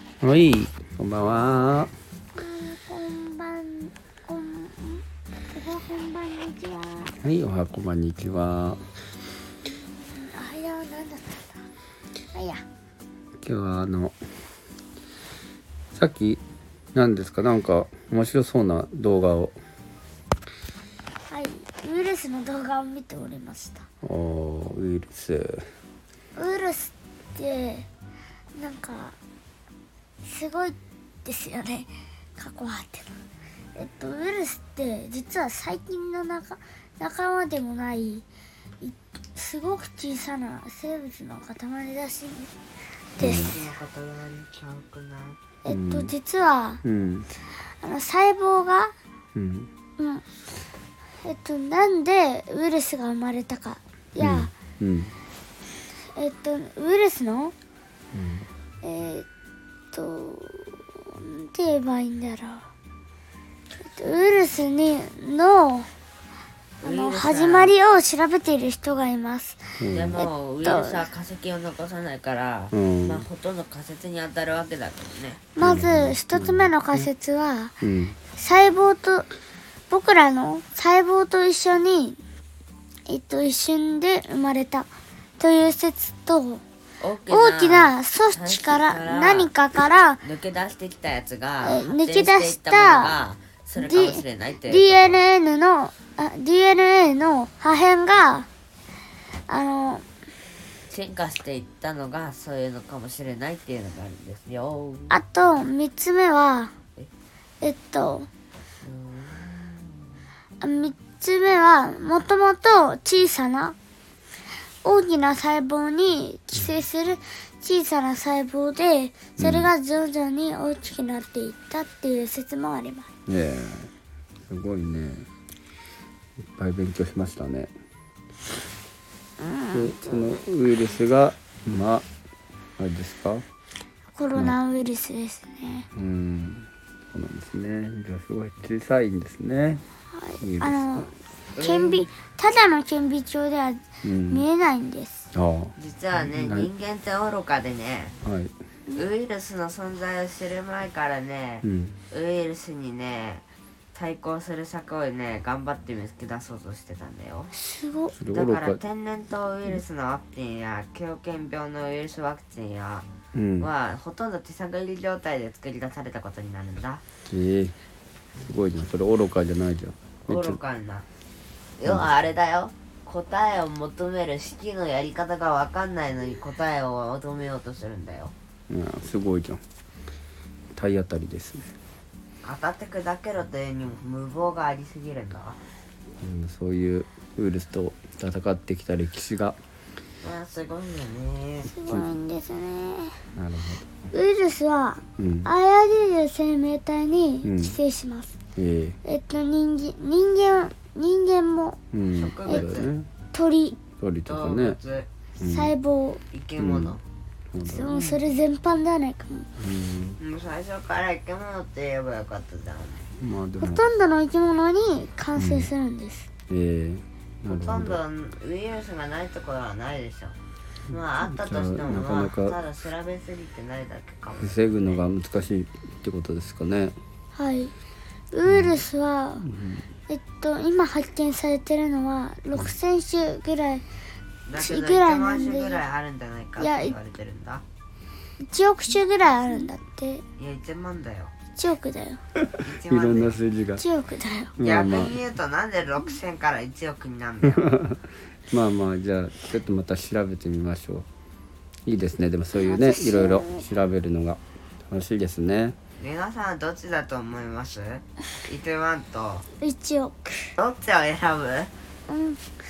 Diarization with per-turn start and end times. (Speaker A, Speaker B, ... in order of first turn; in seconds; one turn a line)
Speaker A: 0.2-1.9
Speaker B: 2.3-7.1
Speaker A: 7.2-8.8
Speaker B: 9.6-11.7
Speaker B: 12.3-12.6
Speaker A: 13.4-14.2
Speaker A: 15.9-16.4
Speaker A: 16.9-19.5
Speaker B: 21.3-23.8
Speaker A: 24.0-25.6
Speaker B: 26.3-27.9
Speaker B: 28.5-29.2
Speaker B: 30.2-33.1
Speaker B: 33.7-38.2
Speaker B: 38.8-42.5
Speaker B: 43.2-43.5
Speaker A: 43.2-43.5
Speaker C: 43.2-45.4
Speaker B: 45.6-46.8
Speaker A: 45.7-46.1
Speaker A: 46.8-47.3
Speaker B: 47.8-48.9
Speaker A: 49.3-49.7
Speaker B: 50.0-50.2
Speaker B: 51.2-54.5
Speaker A: 54.2-55.1
Speaker B: 56.1-57.5
Speaker A: 58.1-58.5
Speaker B: 58.8-59.3
Speaker B: 59.9-62.7
Speaker B: 63.8-65.9
Speaker C: 66.8-67.7
Speaker B: 66.8-71.1
Speaker A: 69.8-70.2
Speaker C: 69.9-75.5
Speaker A: 72.7-73.3
Speaker B: 75.5-77.7
Speaker A: 75.6-77.1
Speaker A: 77.8-78.2
Speaker B: 78.3-79.3
Speaker B: 79.9-82.2
Speaker B: 83.1-86.6
Speaker C: 87.0-89.5
Speaker B: 87.3-90.2
Speaker C: 90.2-95.2
Speaker B: 91.6-93.2
Speaker B: 93.8-98.5
Speaker B: 99.5-100.0
Speaker C: 100.9-105.2
Speaker B: 105.1-106.7
Speaker B: 107.6-108.3
Speaker C: 108.8-110.0
Speaker B: 110.6-113.8
Speaker B: 114.8-123.1
Speaker A: 119.4-119.7
Speaker A: 123.3-123.9
Speaker A: 124.5-125.3
Speaker A: 126.5-127.7
Speaker B: 129.4-130.0
Speaker A: 129.7-132.1
Speaker A: 132.8-133.4
Speaker B: 134.1-135.9
Speaker A: 135.9-139.8
Speaker B: 140.1-145.3
Speaker A: 140.4-140.9
Speaker C: 141.5-142.1
Speaker A: 144.0-144.4
Speaker A: 145.3-146.7
Speaker C: 145.8-148.2
Speaker A: 148.2-148.5
Speaker C: 148.9-157.5
Speaker A: 151.6-152.0
Speaker B: 157.5-158.1
Speaker A: 158.1-158.8
Speaker C: 158.3-163.1
Speaker A: 163.3-163.7
Speaker C: 163.6-167.0
Speaker A: 167.3-167.8
Speaker A: 168.4-170.6
Speaker C: 170.3-171.1
Speaker C: 171.8-178.3
Speaker A: 178.7-179.6
Speaker A: 180.7-181.7
Speaker C: 182.4-185.6
Speaker A: 186.2-189.6
Speaker C: 190.2-192.0
Speaker B: 191.7-193.2
Speaker A: 191.9-192.1
Speaker A: 193.3-193.9
Speaker B: 194.1-198.3
Speaker A: 195.2-195.5
Speaker A: 197.4-197.8
Speaker A: 198.6-199.0
Speaker B: 199.0-201.8
Speaker A: 201.9-203.1
Speaker C: 202.1-202.9
Speaker B: 202.5-202.8
Speaker B: 203.3-203.8
Speaker A: 204.0-204.8
Speaker C: 204.2-205.1
Speaker A: 205.4-205.7
Speaker B: 205.4-206.2
Speaker C: 206.3-207.0
Speaker A: 206.6-207.0
Speaker A: 207.5-208.1
Speaker B: 207.6-209.5
Speaker A: 209.6-210.2
Speaker C: 210.2-213.1
Speaker A: 213.2-213.8
Speaker B: 213.6-216.3
Speaker A: 215.3-215.7
Speaker A: 216.5-218.0
Speaker C: 217.4-220.4
Speaker C: 220.9-224.8
Speaker A: 220.9-222.6
Speaker A: 224.4-226.9
Speaker B: 227.3-227.7
Speaker B: 228.3-229.5
Speaker A: 228.4-228.8
Speaker A: 229.4-229.8
Speaker B: 230.1-233.8
Speaker C: 234.4-237.6
Speaker B: 234.6-235.8
Speaker B: 236.6-236.9
Speaker B: 238.4-240.2
Speaker C: 240.4-241.3
Speaker B: 241.5-242.2
Speaker A: 242.4-243.8
Speaker C: 242.7-243.4
Speaker B: 243.8-244.6
Speaker A: 244.6-245.2
Speaker C: 244.6-247.6
Speaker A: 247.5-251.1
Speaker A: 251.8-255.8
Speaker B: 252.5-253.6
Speaker C: 256.0-259.4
Speaker B: 259.6-260.5
Speaker C: 260.6-261.7
Speaker B: 262.1-262.4